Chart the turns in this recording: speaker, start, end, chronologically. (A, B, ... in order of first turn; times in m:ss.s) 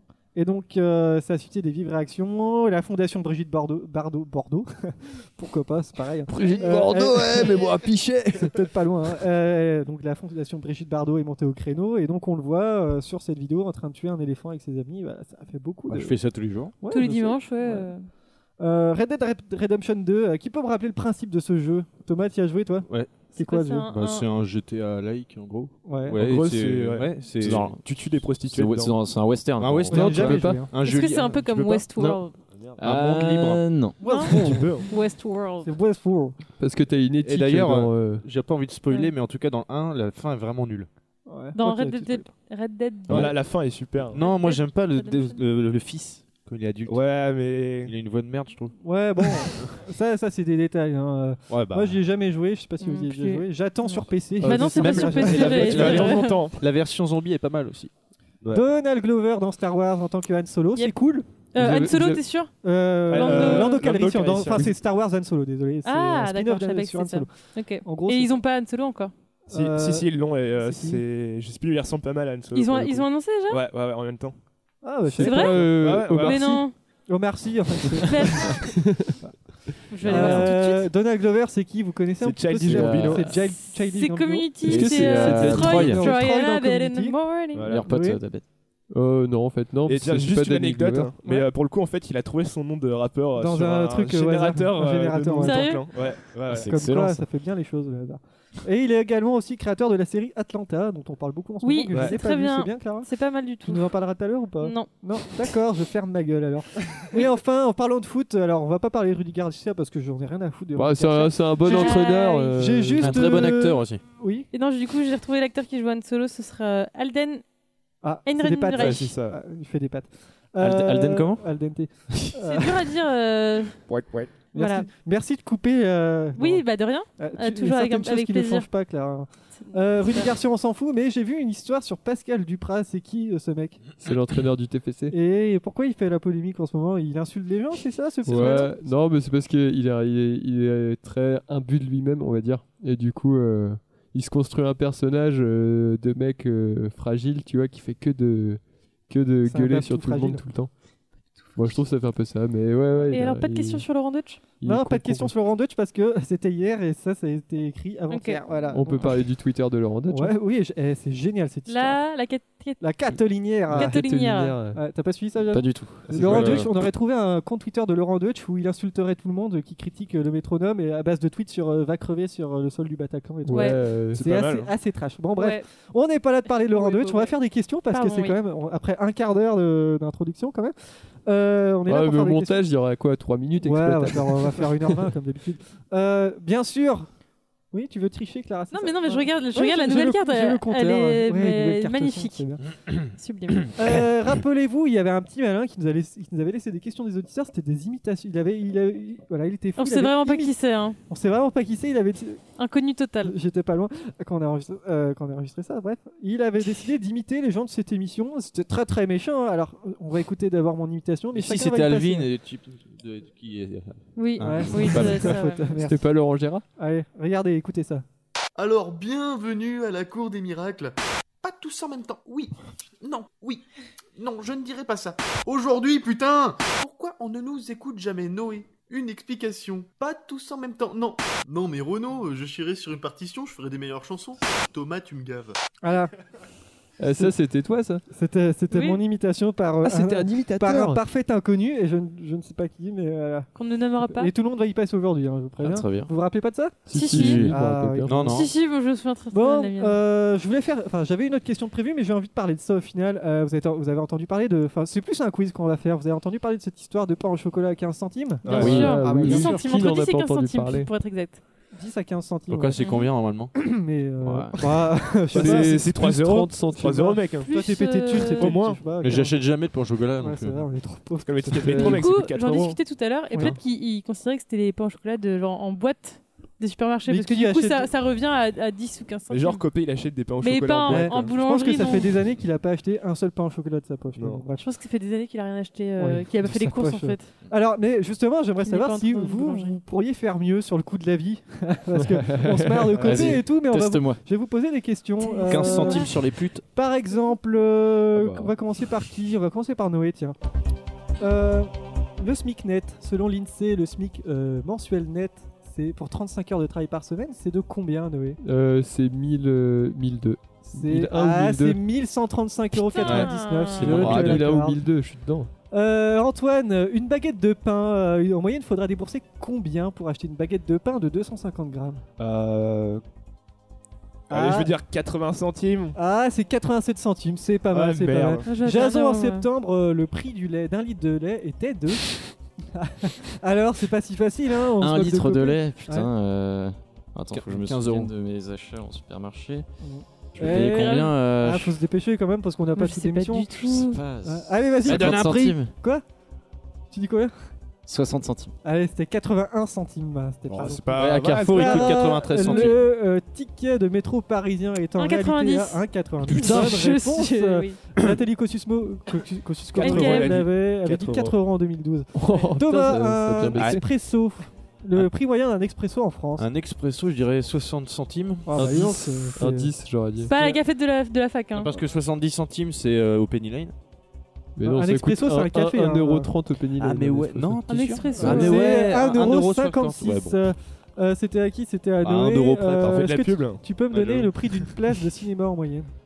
0:00.3-0:07.8 A
0:06.3-0:08.5 B
0:08.4-0:16.2 A
0:15.9-0:16.7 C
0:16.8-0:17.9 A
0:16.9-0:18.1 D
0:18.6-0:23.9 A
0:22.9-0:23.2 C
0:23.4-0:24.2 D
0:23.9-0:27.8 C
0:25.8-0:26.2 A
0:26.2-0:29.0 E
0:27.4-0:27.8 F
0:28.5-0:30.3 F
0:29.6-0:31.8 C
0:29.9-0:30.7 A
0:29.9-0:30.6 B
0:30.8-0:32.4 D
0:32.8-0:33.7 C
0:32.8-0:34.4 F
0:34.0-0:34.3 D
0:34.1-0:34.9 E
0:34.9-0:35.7 D
0:35.6-0:36.3 A
0:36.6-0:38.2 B
0:37.2-0:40.9 C
0:41.3-0:42.3 A
0:41.5-0:43.3 D
0:43.1-0:44.2 E
0:44.1-0:47.0 C
0:44.1-0:45.4 D
0:46.9-0:47.9 E
0:47.8-0:48.7 C
0:48.8-0:56.2 A
0:51.5-0:52.0 C
0:52.8-0:56.4 D
0:54.4-0:55.2 B
0:54.6-0:57.9 C
0:55.2-0:56.6 E
0:58.5-1:01.2 A
1:01.5-1:02.5 D
1:01.6-1:02.2 B
1:02.6-1:07.3 A
1:03.1-1:04.7 E
1:03.1-1:03.8 D
1:05.8-1:09.1 D
1:07.8-1:08.4 A
1:09.5-1:11.0 A
1:09.5-1:14.3 E
1:12.5-1:13.6 D
1:14.8-1:15.7 A
1:15.1-1:16.6 B
1:15.2-1:15.6 D
1:15.6-1:16.5 E
1:16.2-1:16.7 D
1:17.1-1:18.6 A
1:18.0-1:18.6 D
1:18.9-1:19.1 B
1:19.9-1:20.9 D
1:20.0-1:27.2 A
1:20.0-1:20.5 F
1:22.2-1:23.3 E
1:22.7-1:23.1 F
1:23.6-1:27.7 D
1:24.6-1:26.1 F
1:24.7-1:26.0 B
1:27.5-1:27.9 E
1:27.6-1:28.4 F
1:27.8-1:28.2 A
1:28.9-1:31.1 B
1:29.8-1:36.8 E
1:33.4-1:35.8 A
1:35.4-1:35.8 D
1:36.7-1:43.1 A
1:41.6-1:43.9 D
1:41.9-1:42.2 E
1:43.6-1:52.0 A
1:44.6-1:44.9 D
1:50.8-1:53.2 B
1:51.6-1:52.6 D
1:52.6-1:54.5 A
1:53.0-1:54.0 C
1:54.5-1:57.4 D
1:58.0-2:02.7 A
1:58.2-1:59.1 D
1:58.7-1:59.4 E
2:00.6-2:01.4 F
2:02.4-2:03.8 D
2:03.9-2:04.3 E
2:04.5-2:06.6 A
2:04.5-2:04.9 D
2:06.4-2:08.7 D
2:07.2-2:13.8 A
2:09.6-2:10.3 D
2:14.0-2:15.1 B
2:15.1-2:18.8 A
2:18.2-2:30.7 B
2:29.5-2:30.4 A
2:31.6-2:33.8 B
2:33.1-2:34.4 D
2:34.6-2:35.3 B
2:34.6-2:39.2 A
2:38.1-2:38.4 D
2:38.7-2:40.3 B
2:40.1-2:42.0 A
2:41.7-2:42.8 D
2:42.8-2:43.9 A
2:43.7-2:44.8 B
2:43.7-2:44.6 D
2:44.7-3:00.7 A
2:45.5-2:46.6 F
2:46.1-2:46.6 E
2:46.3-2:46.6 C
2:53.4-2:54.2 B
2:53.5-2:53.8 D
2:54.1-2:54.7 E
2:55.4-2:55.6 D
2:56.5-2:57.3 D
2:57.9-2:58.4 D
3:01.2-3:02.6 A
3:01.9-3:04.7 B
3:03.6-3:07.1 A
3:07.7-3:12.6 A
3:08.7-3:12.4 D
3:13.0-3:13.8 D
3:13.8-3:20.5 A
3:19.8-3:21.0 D
3:21.1-3:22.4 A
3:22.6-3:23.3 D
3:23.2-3:32.3 A
3:31.3-3:35.3 C
3:34.2-3:35.7 D
3:34.4-3:36.0 A
3:35.8-3:36.6 B
3:36.8-3:38.0 A
3:38.6-3:43.6 G
3:44.2-3:55.6 G
3:55.8-3:56.1 A
3:57.0-3:58.0 B
3:58.1-4:03.5 A
3:58.7-3:59.0 D
3:59.8-4:01.0 B
4:03.6-4:04.3 D
4:04.1-4:06.9 A
4:05.6-4:06.1 F
4:06.9-4:08.3 B
4:06.9-4:07.5 D
4:07.1-4:07.5 F
4:07.4-4:08.2 A
4:08.0-4:08.5 C
4:08.3-4:10.0 D
4:09.3-4:19.9 A
4:18.4-4:21.4 D
4:18.5-4:20.9 B
4:21.7-4:22.8 A
4:22.5-4:23.5 C
4:22.8-4:23.1 D
4:23.6-4:25.8 A
4:24.2-4:24.5 C
4:25.3-4:27.2 B
4:25.4-4:27.5 E
4:27.4-4:29.4 A
4:27.4-4:28.6 D
4:28.2-4:28.8 E
4:29.0-4:30.6 C
4:30.2-4:32.0 A
4:31.2-4:32.8 E
4:31.5-4:32.0 B
4:31.8-4:39.6 D
4:37.1-4:37.9 A
4:39.3-4:41.3 E
4:40.4-4:42.1 D
4:40.9-4:44.6 A
4:44.2-4:44.4 E
4:44.6-4:47.3 D
4:46.0-4:56.1 A
4:48.6-4:49.7 D
4:52.0-4:53.2 B
4:53.0-4:54.2 F
4:55.2-4:56.1 D
4:55.5-4:56.6 C
4:56.7-5:00.4 A
5:01.2-5:08.4 A
5:08.4-5:11.8 B
5:10.7-5:14.8 A
5:12.8-5:14.1 D
5:13.0-5:14.4 C
5:13.8-5:15.5 B
5:15.7-5:22.0 A
5:22.2-5:23.0 E
5:24.3-5:26.0 E
5:24.3-5:24.7 A
5:26.0-5:32.2 A
5:27.7-5:28.5 E
5:28.5-5:29.5 D
5:32.7-5:36.1 A
5:34.8-5:39.6 F
5:37.3-5:38.1 C
5:39.8-5:46.0 A
5:40.4-5:41.8 F
5:42.8-5:44.0 D
5:43.8-5:45.7 F
5:44.8-5:45.6 C
5:46.9-5:47.3 A
5:47.8-5:48.5 F
5:48.6-6:06.5 A
5:50.5-5:52.6 E
5:51.0-5:52.8 C
5:55.0-5:57.8 D
5:59.8-6:00.4 D
5:59.8-6:01.4 E
6:02.1-6:03.8 B
6:06.4-6:08.5 C
6:08.4-6:09.7 A
6:08.6-6:10.3 B
6:10.3-6:11.7 D
6:10.3-6:10.6 A
6:11.6-6:13.7 C
6:14.6-6:17.7 B
6:14.6-6:16.3 A
6:16.8-6:20.4 C
6:17.7-6:18.9 D
6:18.2-6:25.9 A
6:22.0-6:22.7 C
6:22.2-6:24.5 E